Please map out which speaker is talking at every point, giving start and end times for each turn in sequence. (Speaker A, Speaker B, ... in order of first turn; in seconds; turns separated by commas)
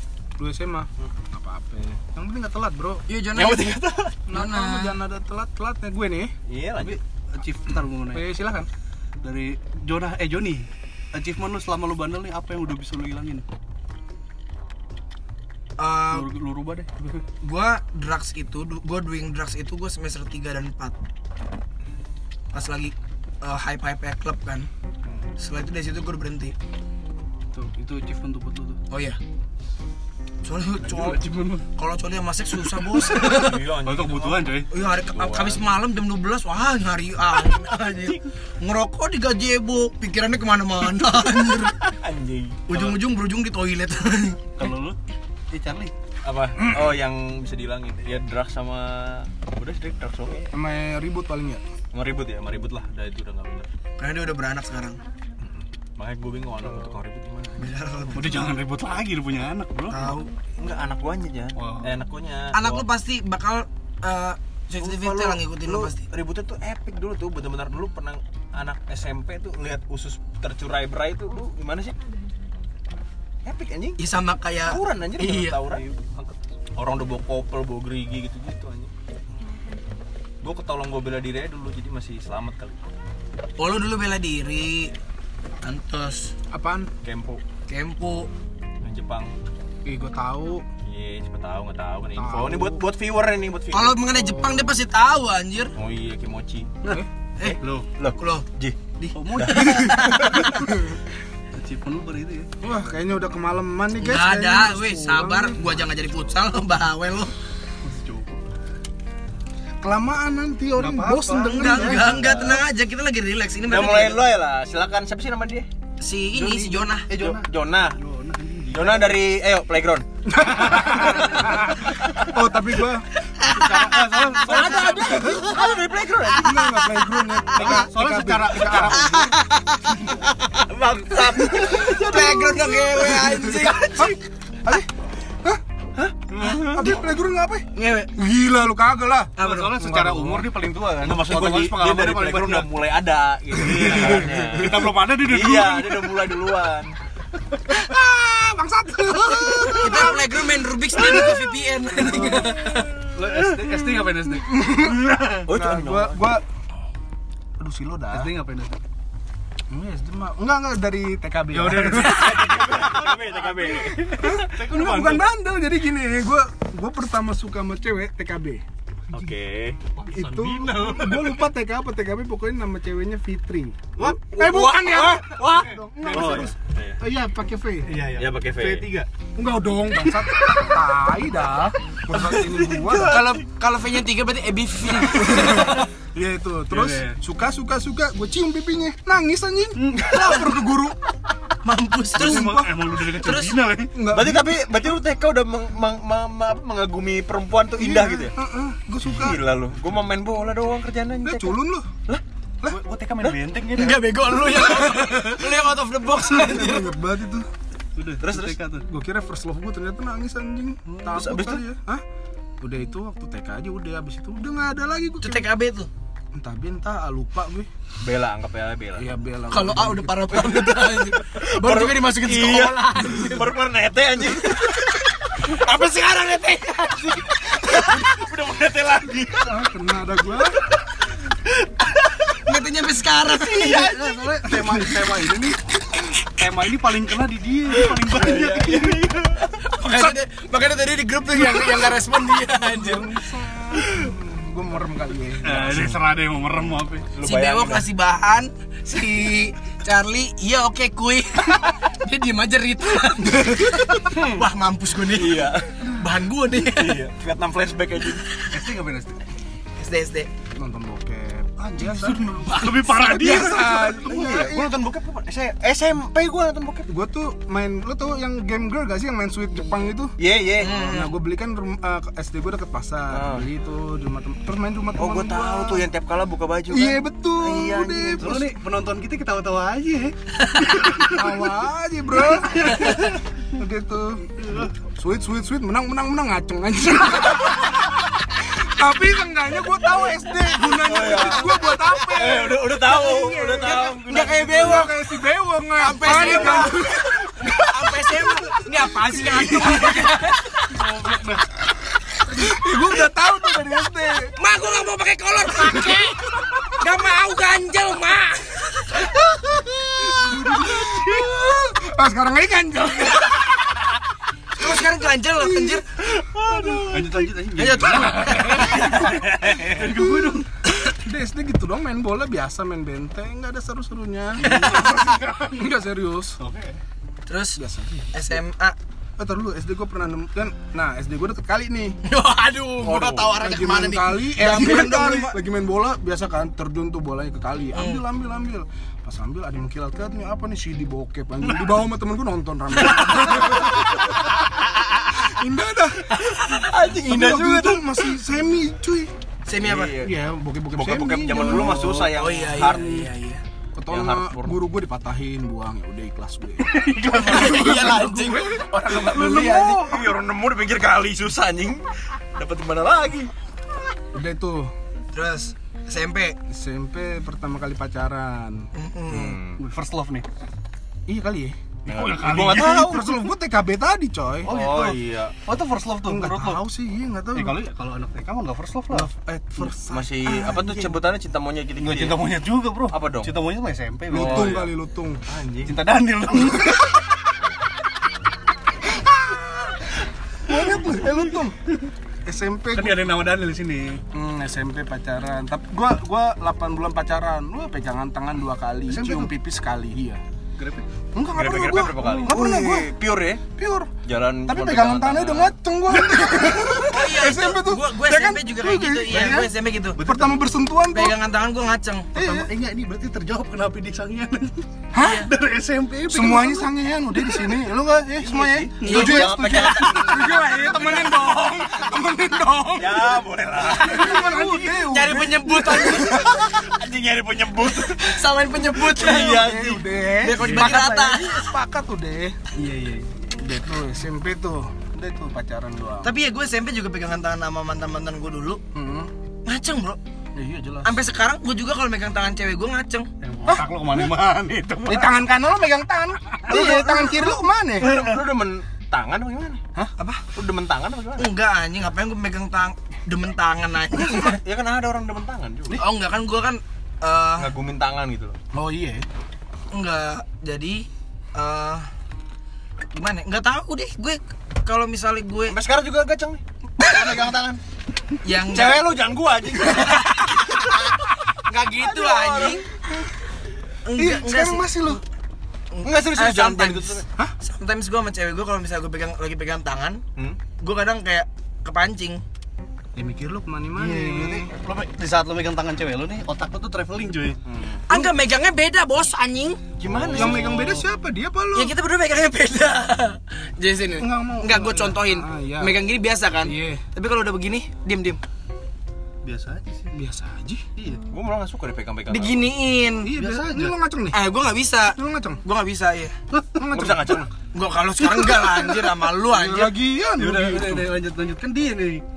Speaker A: 0.4-3.0, Speaker B: 3.1-5.0, Speaker C: 3.4-4.1, Speaker A: 4.3-6.3, Speaker C: 6.5-7.0, Speaker D: 6.8-8.2, Speaker A: 8.1-8.7, Speaker D: 9.2-13.4, Speaker B: 15.8-16.3, Speaker D: 16.1-17.2, Speaker B: 17.4-20.9, Speaker B: 22.5-24.7, Speaker B: 25.4-26.6, Speaker D: 27.5-28.8, Speaker B: 28.9-29.2, Speaker B: 30.4-31.2, Speaker D: 30.8-31.7, Speaker B: 31.7-33.6, Speaker D: 32.8-34.7, Speaker C: 33.1-35.7, Speaker B: 34.7-41.8, Speaker C: 41.8-43.0, Speaker B: 42.7-44.4, Speaker D: 44.6-45.0, Speaker D: 45.5-45.9, Speaker C: 46.2-50.5, Speaker A: 50.5-51.6, Speaker C: 51.9-53.7, Speaker B: 54.0-55.0, Speaker C: 55.4-57.8, Speaker B: 57.6-58.5, Speaker D: 58.1-60.2, Speaker B: 59.9-60.3, Speaker C: 60.6-62.9, Speaker D: 61.6-61.9, Speaker B: 62.5-66.0, Speaker C: 64.8-72.0, Speaker C: 73.4-74.0, Speaker B: 74.0-75.6, Speaker C: 74.6-75.8, Speaker D: 75.6-76.4, Speaker C: 76.8-78.9, Speaker C: 80.4-82.8, Speaker B: 83.6-84.9, Speaker B: 85.6-86.3, Speaker A: 86.5-86.9, Speaker C: 87.0-87.4, Speaker B: 87.7-88.3, Speaker C: 88.8-89.3, Speaker A: 89.8-90.6, Speaker C: 90.8-94.1, Speaker A: 92.2-92.8, Speaker B: 93.7-95.7, Speaker C: 95.8-96.7, Speaker C: 97.4-100.6, Speaker D: 97.6-97.9, Speaker B: 98.2-98.5, Speaker B: 99.0-100.5, Speaker D: 99.1-100.8, Speaker A: 100.6-101.0, Speaker D: 101.5-102.7, Speaker A: 102.6-105.8, Speaker B: 104.0-107.3, Speaker D: 107.8-108.4, Speaker A: 109.8-112.2, Speaker D: 110.8-112.5, Speaker B: 111.4-114.2, Speaker C: 112.0-112.6, Speaker C: 113.7-115.7, Speaker B: 116.0-117.1, Speaker D: 116.3-119.2, Speaker C: 117.1-118.0, Speaker C: 118.7-120.0, Speaker A: 120.2-123.0, Speaker C: 120.6-122.3, Speaker B: 123.2-125.6, Speaker D: 123.4-125.3, Speaker C: 124.4-126.8, Speaker A: 124.5-125.6, Speaker A: 126.3-129.3, Speaker D: 127.5-129.3, Speaker B: 128.9-134.1, Speaker C: 130.7-132.9, Speaker A: 131.6-134.9, Speaker C: 135.9-136.9, Speaker A: 136.6-140.5, Speaker B: 137.7-138.1, Speaker B: 139.4-139.7, Speaker D: 139.4-142.7, Speaker C: 141.0-146.9, Speaker D: 143.7-146.3, Speaker A: 143.7-144.5, Speaker A: 147.7-151.4, Speaker B: 149.7-152.9, Speaker A: 151.9-152.5, Speaker D: 152.1-152.5, Speaker D: 153.1-155.4, Speaker A: 154.4-156.4, Speaker C: 155.4-156.2, Speaker A: 157.6-158.3, Speaker D: 158.1-158.8, Speaker A: 159.7-162.3, Speaker D: 161.5-165.2, Speaker C: 161.8-165.1, Speaker A: 164.1-168.6, Speaker C: 169.1-169.9, Speaker D: 169.9-171.3, Speaker A: 170.1-178.0, Speaker C: 170.7-171.2, Speaker D: 174.0-176.5, Speaker C: 174.0-177.0, Speaker D: 177.8-179.1, Speaker C: 178.1-179.0, Speaker A: 179.3-183.3, Speaker D: 180.0-180.3, Speaker C: 182.1-183.4, Speaker B: 183.0-185.9, Speaker A: 185.1-190.9, Speaker D: 186.7-187.2, Speaker D: 189.8-190.5, Speaker B: 190.1-190.5, Speaker B: 191.6-192.6, Speaker D: 192.1-193.9, Speaker A: 192.2-192.9, Speaker B: 193.2-193.6, Speaker A: 193.9-194.5, Speaker C: 194.1-198.3, Speaker A: 197.8-199.4, Speaker C: 199.0-203.5, Speaker A: 201.2-201.9, Speaker D: 202.7-204.8, Speaker B: 203.7-206.9, Speaker A: 206.1-207.5, Speaker D: 207.9-208.9, Speaker C: 208.2-208.6, Speaker A: 208.9-212.0, Speaker D: 210.9-211.2, Speaker C: 211.1-211.6, Speaker A: 212.6-215.5, Speaker B: 215.2-215.9, Speaker A: 216.3-217.7, Speaker C: 218.0-219.1, Speaker A: 218.9-220.4, Speaker B: 219.5-223.5, Speaker C: 221.2-225.0, Speaker B: 224.3-228.1, Speaker C: 227.6-229.6, Speaker A: 229.3-230.6, Speaker B: 232.3-233.9, Speaker D: 233.4-235.6, Speaker A: 234.0-235.6, Speaker D: 236.3-239.1, Speaker C: 237.8-239.6, Speaker B: 239.6-243.1, Speaker A: 242.6-245.8, Speaker D: 245.4-247.1, Speaker C: 245.5-246.0, Speaker C: 247.1-247.9, Speaker B: 247.2-257.0, Speaker C: 255.1-256.0, Speaker C: 256.6-258.2, Speaker D: 258.5-259.2, Speaker B: 259.8-260.3, Speaker A: 260.5-264.7, Speaker D: 261.6-264.4, Speaker C: 264.0-266.9, Speaker A: 266.9-275.9, Speaker C: 270.2-270.9, Speaker B: 270.6-271.1, Speaker C: 273.1-273.5, Speaker C: 274.9-278.5, Speaker A: 276.7-278.5, Speaker D: 278.2-281.4, Speaker A: 281.1-297.2, Speaker D: 282.2-283.2, Speaker D: 284.4-284.7, Speaker C: 290.7-294.9, Speaker B: 293.6-294.9, Speaker B: 295.8-300.8, Speaker C: 296.0-297.7, Speaker A: 298.8-300.1, Speaker D: 300.6-301.5, Speaker A: 302.3-304.3, Speaker B: 304.4-309.1, Speaker A: 305.6-306.0, Speaker A: 309.0-313.8, Speaker D: 310.2-311.2, Speaker B: 314.5-315.8, Speaker A: 315.3-315.8, Speaker C: 316.0-317.2, Speaker A: 316.5-316.9, Speaker D: 316.8-320.5, Speaker B: 317.5-318.9, Speaker C: 318.7-319.9, Speaker A: 319.8-326.4, Speaker D: 324.4-325.7, Speaker B: 324.4-325.0, Speaker D: 326.4-326.8, Speaker B: 327.3-327.6, Speaker A: 327.6-328.2, Speaker B: 328.1-328.8, Speaker A: 329.2-332.0, Speaker B: 332.0-335.4, Speaker C: 332.8-333.4, Speaker A: 333.4-344.3, Speaker B: 337.7-338.0, Speaker A: 345.1-346.1, Speaker C: 346.2-348.1, Speaker A: 346.9-349.1, Speaker B: 349.5-350.0, Speaker C: 349.6-350.2, Speaker A: 350.0-352.1, Speaker C: 350.7-353.1, Speaker B: 351.7-353.4, Speaker A: 353.7-360.1, Speaker C: 353.9-354.6, Speaker D: 356.6-358.1, Speaker B: 357.1-359.8, Speaker D: 359.0-359.6, Speaker C: 359.2-363.3, Speaker A: 364.1-364.7, Speaker B: 365.1-366.4, Speaker A: 366.5-368.7, Speaker B: 368.7-369.4, Speaker C: 369.1-369.6, Speaker D: 369.6-370.2, Speaker A: 371.1-371.6, Speaker C: 371.9-373.1, Speaker D: 371.9-373.1, Speaker A: 372.3-374.5, Speaker D: 374.4-376.6, Speaker C: 374.4-375.4, Speaker A: 376.0-377.6, Speaker D: 377.3-379.7, Speaker A: 378.9-380.9, Speaker C: 379.9-382.3, Speaker D: 381.8-384.7, Speaker C: 382.9-383.3, Speaker A: 384.1-385.2, Speaker C: 384.1-384.7, Speaker C: 385.3-385.8, Speaker D: 385.6-387.0, Speaker A: 388.9-389.7, Speaker A: 390.4-391.6, Speaker A: 392.2-393.1, Speaker D: 392.7-394.0, Speaker A: 394.1-400.2, Speaker D: 398.9-399.3, Speaker D: 400.6-400.8, Speaker A: 401.1-402.9, Speaker C: 401.3-403.4, Speaker A: 403.6-403.9, Speaker C: 404.0-405.5, Speaker A: 404.4-411.2, Speaker B: 406.9-410.0, Speaker D: 410.0-410.3, Speaker B: 410.9-412.1, Speaker A: 412.1-412.5, Speaker D: 412.1-416.7, Speaker A: 414.9-415.3, Speaker B: 415.0-415.3, Speaker A: 416.1-423.2, Speaker C: 418.2-420.2, Speaker B: 418.8-420.3, Speaker D: 418.8-419.1, Speaker C: 422.7-424.1, Speaker A: 423.7-426.5, Speaker B: 423.8-426.3, Speaker C: 425.9-430.0, Speaker B: 427.6-429.5, Speaker A: 428.9-432.4, Speaker B: 430.2-431.5, Speaker D: 432.5-433.3, Speaker A: 433.3-436.1, Speaker B: 436.0-438.6, Speaker A: 438.7-439.1, Speaker B: 439.4-440.0, Speaker A: 440.3-441.0, Speaker B: 440.8-443.1, Speaker D: 443.2-445.1, Speaker A: 444.9-447.9, Speaker C: 446.5-449.6, Speaker D: 446.5-446.9, Speaker D: 447.8-448.2, Speaker B: 450.0-450.2, Speaker C: 450.3-451.3, Speaker B: 451.2-454.4, Speaker C: 454.1-455.8, Speaker B: 455.7-457.5, Speaker C: 457.4-458.4, Speaker A: 458.5-459.1, Speaker B: 459.7-461.9, Speaker B: 462.9-465.6, Speaker C: 465.5-467.6, Speaker B: 468.2-468.9, Speaker C: 468.5-471.0, Speaker B: 469.8-470.6, Speaker B: 471.5-472.7, Speaker C: 471.8-472.6, Speaker B: 473.9-475.0, Speaker A: 473.9-475.0, Speaker B: 475.7-480.0, Speaker C: 475.8-477.1, Speaker B: 480.6-482.2, Speaker A: 482.9-484.5, Speaker D: 483.8-487.4, Speaker C: 487.4-487.8, Speaker B: 487.9-489.6, Speaker C: 489.8-490.7, Speaker D: 489.8-490.9, Speaker A: 490.1-491.8, Speaker B: 491.5-498.2, Speaker A: 494.0-495.7, Speaker A: 496.4-496.8, Speaker D: 499.2-499.9, Speaker A: 499.9-500.6, Speaker D: 500.8-501.0, Speaker C: 501.1-502.5, Speaker B: 502.1-503.1, Speaker A: 503.0-504.2, Speaker D: 503.1-503.8, Speaker B: 504.1-506.1, Speaker A: 504.9-505.4, Speaker D: 506.3-506.6, Speaker A: 506.5-507.3, Speaker C: 506.7-507.3, Speaker B: 507.5-509.8, Speaker A: 507.9-510.9, Speaker D: 510.2-512.0